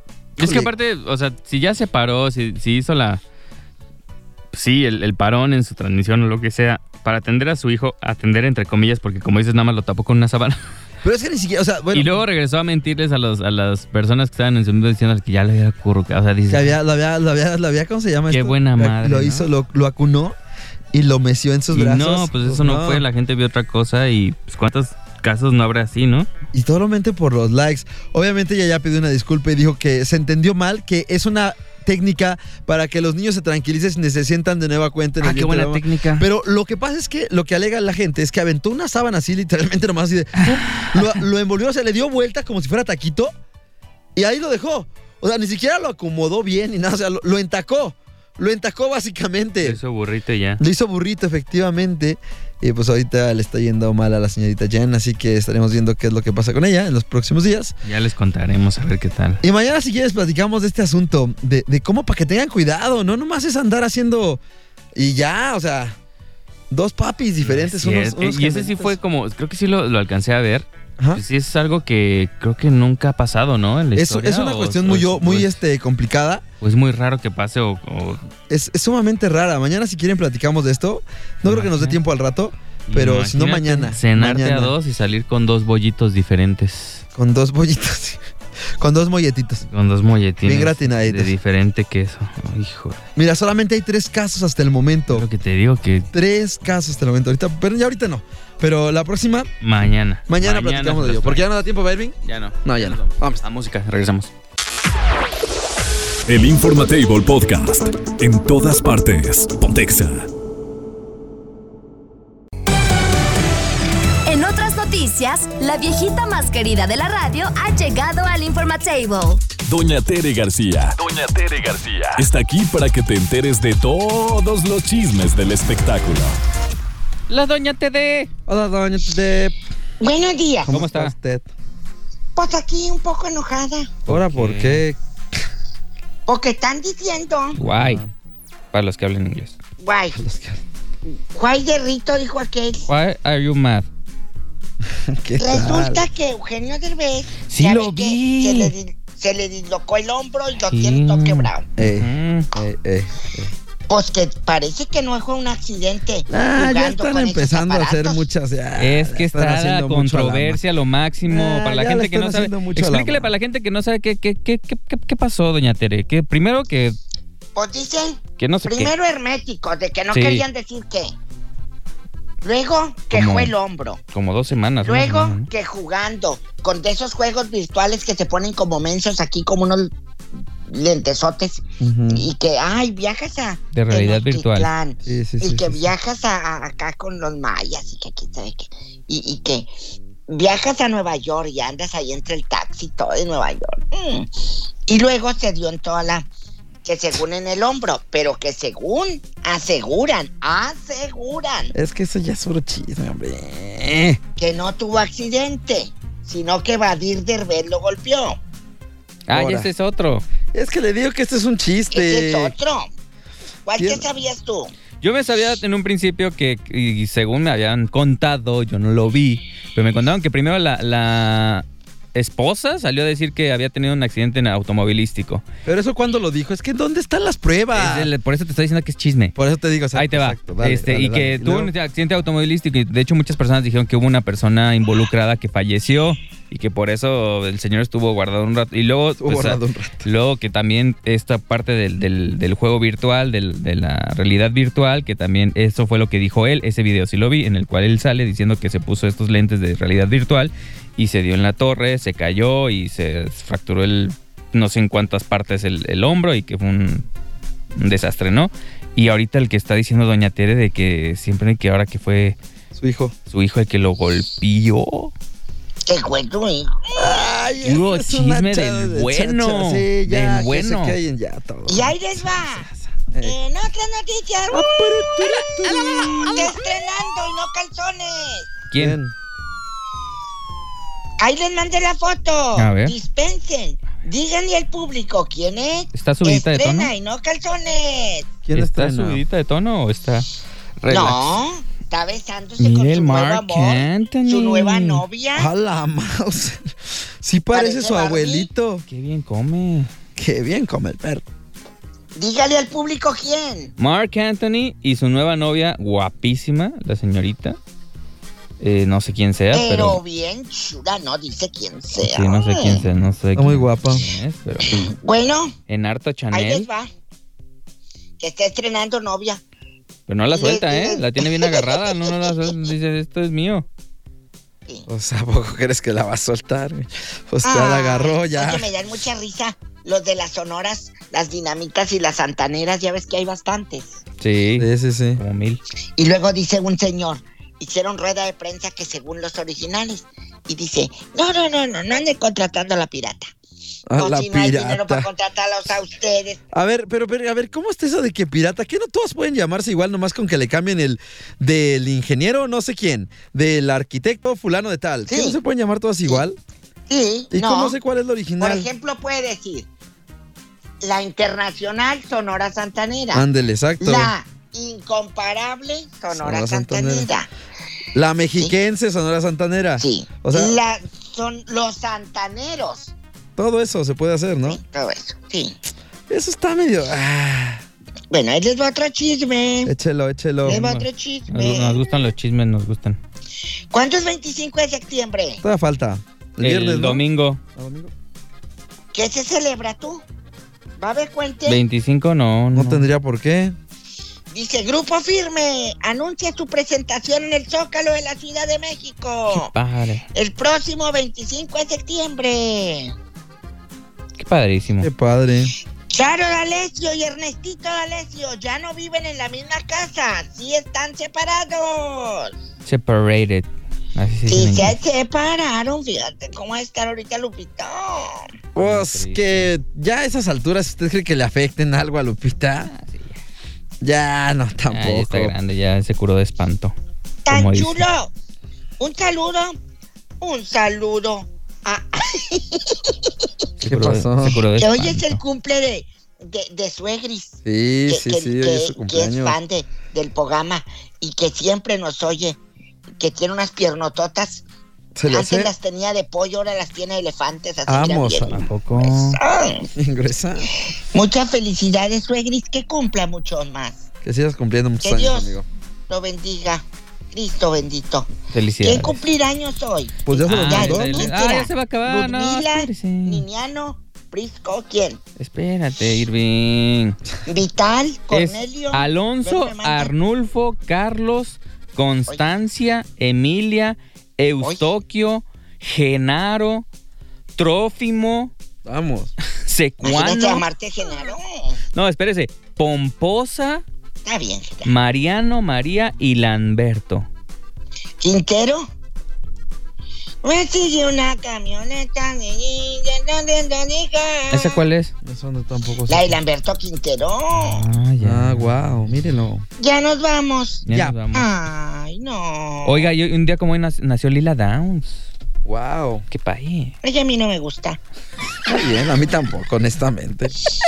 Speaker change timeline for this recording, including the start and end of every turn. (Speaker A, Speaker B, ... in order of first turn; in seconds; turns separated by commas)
Speaker A: 0.4-0.7, Speaker B: 0.4-3.2, Speaker B: 4.5-10.6, Speaker A: 11.0-12.2, Speaker B: 11.9-16.7, Speaker A: 16.5-20.3, Speaker B: 18.3-19.5, Speaker A: 20.9-23.0, Speaker B: 21.7-26.3, Speaker A: 26.5-43.3, Speaker B: 35.2-36.3, Speaker B: 40.4-41.2, Speaker A: 44.1-49.8, Speaker B: 49.6-50.6, Speaker A: 50.6-57.7, Speaker B: 57.8-59.4, Speaker A: 59.4-64.4, Speaker A: 64.9-66.0, Speaker A: 66.7-69.0, Speaker B: 67.4-75.5, Speaker A: 73.9-76.4, Speaker B: 76.6-78.2, Speaker A: 78.5-84.7, Speaker B: 81.5-82.0, Speaker B: 82.9-87.0, Speaker A: 87.1-88.2, Speaker A: 88.8-89.6, Speaker B: 89.6-93.0, Speaker A: 90.4-91.3, Speaker A: 93.2-95.2, Speaker B: 95.1-96.1, Speaker A: 96.1-99.5, Speaker B: 99.6-101.5, Speaker A: 100.3-103.4, Speaker B: 102.2-104.3, Speaker C: 106.3-110.3, Speaker D: 114.2-119.4, Speaker C: 119.6-126.4, Speaker B: 127.3-128.3, Speaker A: 128.5-129.5, Speaker E: 130.0-130.7, Speaker A: 130.7-131.5, Speaker B: 130.7-131.1, Speaker E: 132.3-133.9, Speaker B: 134.1-134.8, Speaker A: 134.1-135.0, Speaker E: 136.3-137.6, Speaker B: 137.6-138.0, Speaker A: 137.6-138.1, Speaker B: 138.7-139.5, Speaker E: 139.8-140.2, Speaker A: 140.1-140.6, Speaker E: 141.3-142.8, Speaker B: 142.9-143.9, Speaker A: 145.0-146.1, Speaker E: 145.4-151.7, Speaker B: 147.5-148.7, Speaker B: 150.7-152.5, Speaker A: 151.8-153.5, Speaker E: 153.9-158.2, Speaker A: 156.3-160.6, Speaker B: 158.8-167.0, Speaker A: 161.3-163.3, Speaker E: 167.5-171.2, Speaker B: 168.4-168.9, Speaker B: 170.1-170.4, Speaker E: 172.4-174.0, Speaker B: 173.1-173.5, Speaker B: 174.1-175.5, Speaker E: 174.8-179.9, Speaker E: 180.7-189.7, Speaker A: 181.8-182.3, Speaker B: 183.7-184.7, Speaker A: 185.1-185.8, Speaker E: 190.3-194.3, Speaker E: 194.9-196.3, Speaker E: 196.8-201.7, Speaker A: 201.7-204.2, Speaker E: 204.4-208.4, Speaker B: 209.3-210.2, Speaker A: 209.3-209.7, Speaker A: 210.5-212.5, Speaker E: 211.9-212.9, Speaker E: 213.7-214.7, Speaker A: 213.8-214.0, Speaker B: 215.0-225.4, Speaker A: 225.7-228.1, Speaker B: 227.7-229.3, Speaker A: 229.3-231.7, Speaker B: 229.9-257.1, Speaker A: 239.2-240.0, Speaker B: 257.8-262.4, Speaker A: 262.7-263.1, Speaker B: 263.3-265.1, Speaker E: 265.9-267.4, Speaker A: 266.9-273.4, Speaker B: 267.6-271.0, Speaker E: 271.7-272.6, Speaker E: 273.2-274.7, Speaker A: 274.5-276.5, Speaker E: 276.2-278.5, Speaker B: 278.7-279.0, Speaker A: 278.8-279.1, Speaker E: 281.2-288.3, Speaker B: 282.6-282.9, Speaker B: 285.9-286.9, Speaker A: 288.4-289.2, Speaker B: 288.5-290.2, Speaker B: 290.8-291.4, Speaker E: 290.9-295.5, Speaker B: 292.6-295.0, Speaker A: 295.3-296.7, Speaker A: 297.2-298.8, Speaker E: 297.5-298.5, Speaker B: 298.9-299.9, Speaker A: 300.2-301.2, Speaker E: 302.1-303.7, Speaker B: 303.8-307.6, Speaker B: 308.6-310.0, Speaker E: 309.5-312.9, Speaker B: 312.0-314.8, Speaker A: 313.3-314.0, Speaker E: 314.7-315.5, Speaker B: 315.7-316.7, Speaker E: 316.3-316.9, Speaker E: 318.2-319.4, Speaker B: 320.1-323.7, Speaker E: 320.3-322.6, Speaker A: 324.9-328.7, Speaker E: 327.4-334.0, Speaker B: 334.2-335.6, Speaker A: 334.6-335.2, Speaker E: 336.0-343.3, Speaker A: 343.9-345.1, Speaker E: 344.0-346.4, Speaker A: 346.5-356.4, Speaker E: 355.1-355.4, Speaker E: 356.9-357.8, Speaker A: 357.3-358.7, Speaker E: 358.4-359.7, Speaker E: 360.8-363.2, Speaker A: 363.1-364.1, Speaker E: 363.8-367.3, Speaker A: 366.1-367.1, Speaker A: 367.9-370.6, Speaker E: 369.8-372.9, Speaker A: 373.4-374.6, Speaker E: 374.4-375.6, Speaker A: 376.1-377.6, Speaker E: 378.1-379.7, Speaker A: 379.6-380.6, Speaker E: 380.4-381.9, Speaker B: 380.4-383.0, Speaker E: 383.7-385.4, Speaker A: 385.4-387.0, Speaker B: 386.4-387.4, Speaker A: 387.6-387.9, Speaker E: 388.9-390.0, Speaker E: 390.8-391.6, Speaker B: 391.4-392.9, Speaker A: 392.5-393.6, Speaker E: 394.3-399.5, Speaker B: 399.3-400.0, Speaker E: 400.1-402.9, Speaker B: 404.2-404.9, Speaker A: 404.8-405.5, Speaker E: 405.9-412.3, Speaker B: 412.6-414.8, Speaker E: 414.3-418.2, Speaker A: 418.5-422.7, Speaker B: 418.6-419.5, Speaker B: 422.7-423.2, Speaker A: 423.8-425.3, Speaker B: 424.7-426.7, Speaker E: 427.2-428.1, Speaker B: 427.3-427.9, Speaker E: 428.8-429.5, Speaker E: 430.2-433.1, Speaker B: 433.6-435.2, Speaker A: 433.6-434.4, Speaker E: 434.6-442.4, Speaker A: 437.4-439.4, Speaker E: 443.0-444.4, Speaker A: 444.9-445.5, Speaker E: 445.1-449.7, Speaker A: 447.7-448.5, Speaker B: 448.3-449.2, Speaker A: 449.8-450.5, Speaker E: 450.9-453.9, Speaker A: 454.0-455.4, Speaker E: 454.8-455.3, Speaker E: 455.9-458.1, Speaker B: 458.3-459.0, Speaker E: 458.6-465.0, Speaker A: 460.0-461.1, Speaker B: 460.2-463.2, Speaker B: 465.2-467.0, Speaker E: 467.2-469.9, Speaker B: 468.1-476.6, Speaker B: 477.4-478.3, Speaker A: 478.6-479.1, Speaker B: 479.3-480.4, Speaker E: 479.8-481.6, Speaker B: 481.7-483.6, Speaker E: 484.0-484.7, Speaker B: 484.6-487.1, Speaker E: 488.0-488.7, Speaker E: 490.2-494.6, Speaker B: 494.3-494.9, Speaker A: 495.0-496.2, Speaker E: 495.9-497.6, Speaker B: 497.3-498.9, Speaker A: 498.0-499.4, Speaker E: 499.6-502.9, Speaker B: 500.6-501.3, Speaker A: 500.7-501.0, Speaker B: 502.6-505.0, Speaker A: 505.4-506.0, Speaker B: 506.1-506.7, Speaker E: 506.8-507.8, Speaker A: 508.4-510.3